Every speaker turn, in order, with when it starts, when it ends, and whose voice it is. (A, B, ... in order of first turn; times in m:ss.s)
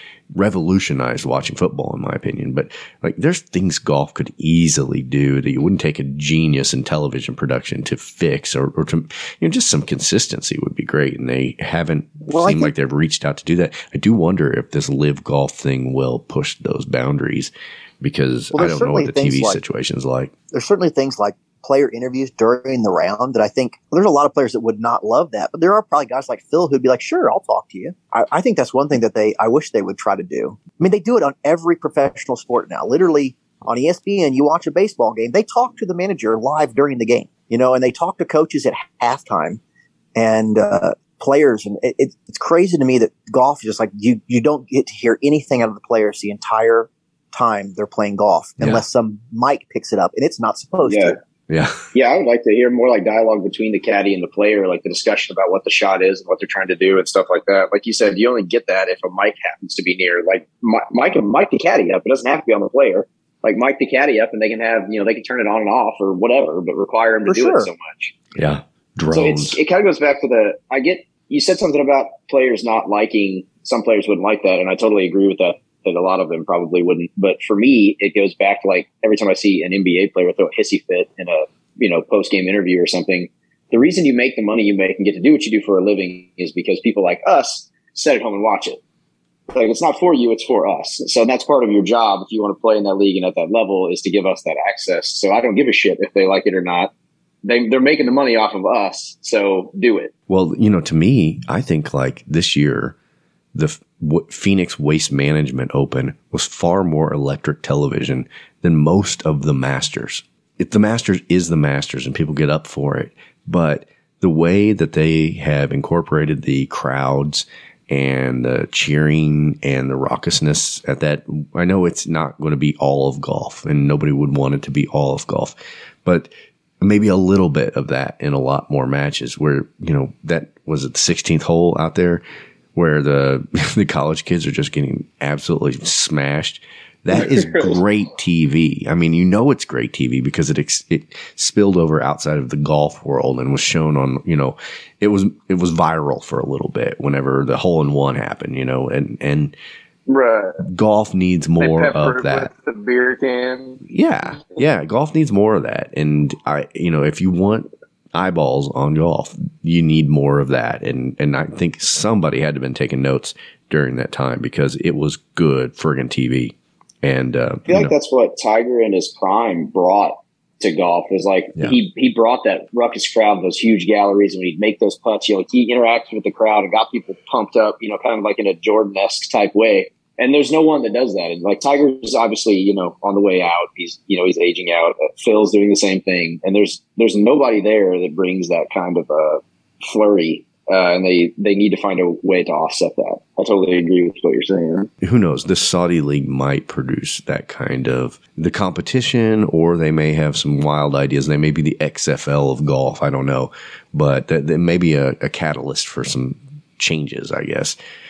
0:00.3-0:20.3 A
0:12.3-0:12.7 B
0:18.5-0:19.6 B
0:20.5-0:39.6 B
0:40.2-0:51.2 B
0:50.8-0:51.2 C
0:51.5-0:51.8 A
0:51.9-1:08.1 C
1:07.3-1:07.7 B
1:08.3-1:09.6 A
1:09.1-1:28.8 C
1:29.5-1:36.9 C
1:37.4-1:40.1 C
1:40.3-1:43.0 A
1:43.5-2:12.2 A
2:12.7-2:29.5 A
2:17.2-2:17.7 C
2:30.1-2:30.6 C
2:30.6-2:32.5 A
2:31.6-2:33.8 C
2:33.9-2:47.9 A
2:47.7-3:14.9 C
3:15.0-3:27.8 A